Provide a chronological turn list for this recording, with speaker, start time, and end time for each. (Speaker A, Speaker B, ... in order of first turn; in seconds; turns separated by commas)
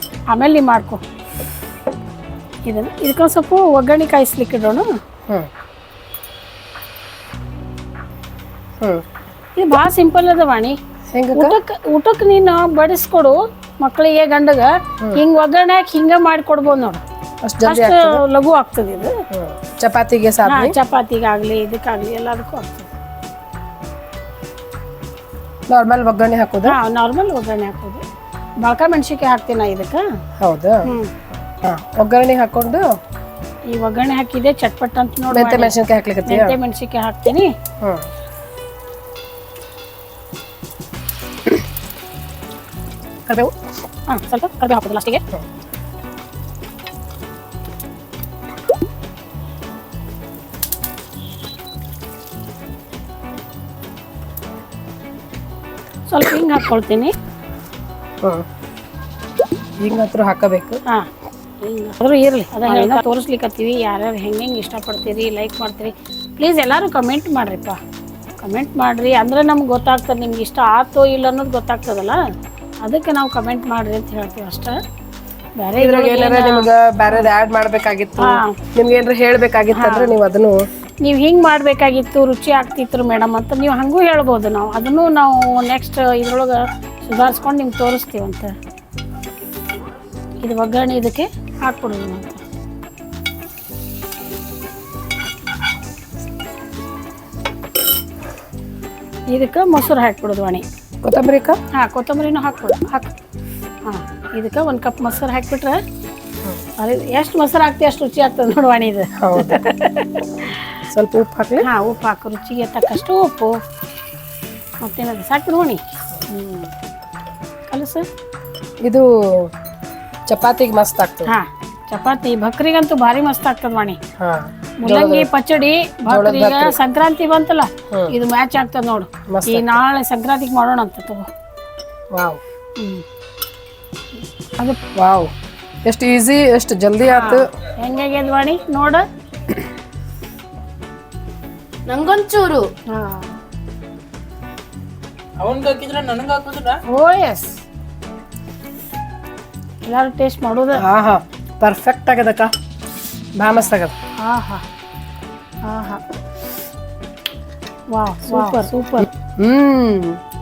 Speaker A: 0.3-1.0, Speaker A: 2.6-4.8, Speaker A: 9.6-10.8, Speaker B: 11.1-11.6, Speaker A: 11.3-17.0, Speaker B: 17.4-18.2, Speaker A: 17.6-19.2, Speaker B: 19.3-20.7, Speaker A: 20.4-22.9, Speaker B: 25.7-26.8, Speaker A: 26.6-28.0, Speaker A: 28.6-30.0, Speaker B: 30.4-30.9, Speaker A: 30.8-31.1, Speaker B: 31.4-32.9, Speaker A: 33.7-35.7, Speaker B: 35.3-36.6, Speaker A: 36.2-37.5, Speaker B: 37.8-38.1, Speaker B: 43.3-43.6, Speaker A: 44.1-45.2, Speaker A: 56.1-57.1, Speaker B: 59.8-60.8, Speaker A: 61.6-67.8, Speaker A: 68.4-72.2, Speaker A: 72.8-74.8, Speaker A: 75.6-77.3, Speaker B: 75.8-80.7, Speaker A: 78.2-78.6, Speaker A: 79.7-80.2, Speaker A: 81.0-88.5, Speaker A: 90.4-92.4, Speaker A: 99.3-100.6, Speaker B: 101.0-101.6, Speaker A: 101.7-103.1, Speaker A: 103.8-105.8, Speaker A: 106.8-110.9, Speaker B: 109.2-109.6, Speaker B: 110.9-111.7, Speaker A: 111.6-113.6, Speaker A: 114.8-116.7, Speaker A: 117.7-118.1, Speaker B: 118.8-119.5, Speaker B: 120.3-121.4, Speaker A: 121.2-124.0, Speaker B: 124.2-125.3, Speaker A: 124.8-131.3, Speaker B: 126.0-126.8, Speaker B: 127.9-128.2, Speaker B: 129.3-129.8, Speaker B: 132.1-132.4, Speaker A: 132.8-133.0, Speaker B: 134.9-135.3, Speaker B: 135.8-137.5, Speaker A: 137.0-139.0, Speaker C: 141.9-142.7, Speaker A: 142.9-143.3, Speaker C: 145.4-146.8, Speaker A: 146.9-147.6, Speaker A: 149.8-150.8, Speaker B: 150.7-152.5, Speaker B: 153.4-153.9, Speaker A: 153.6-154.6, Speaker A: 155.6-156.0, Speaker A: 157.9-159.1, Speaker B: 158.3-158.6, Speaker B: 159.2-160.2